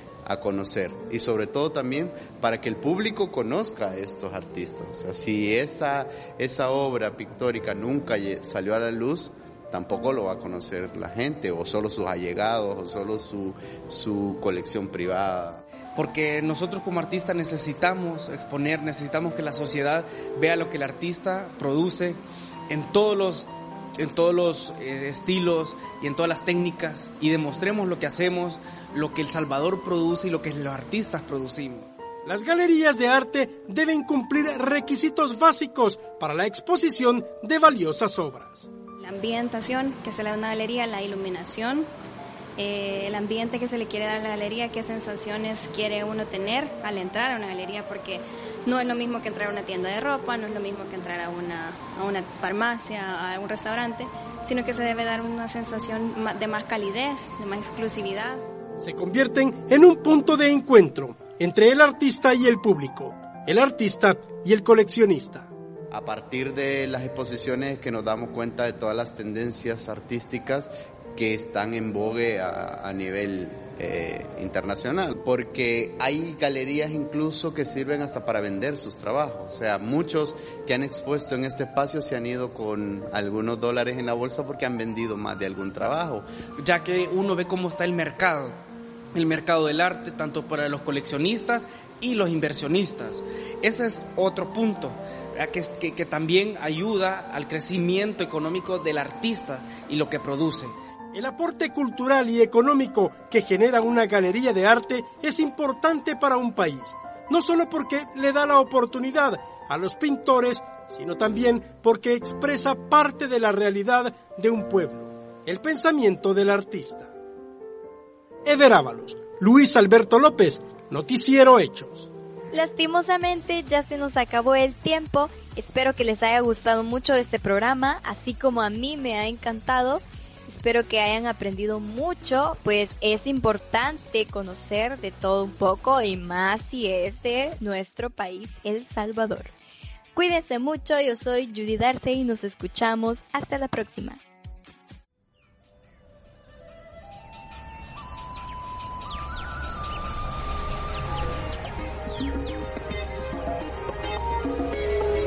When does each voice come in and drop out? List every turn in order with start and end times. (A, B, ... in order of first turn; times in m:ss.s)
0:00.2-0:15.6 A
0:16.0-0:31.9 B
0:32.2-0:38.7 C
0:39.0-0:41.9 D
0:42.6-0:58.4 D
0:58.8-1:05.5 C
1:05.9-1:26.2 A
1:26.6-1:28.6 B
1:29.1-1:40.7 B
1:41.1-1:57.1 C
1:58.4-2:02.1 C
2:02.5-2:19.5 E
2:20.1-2:24.2 E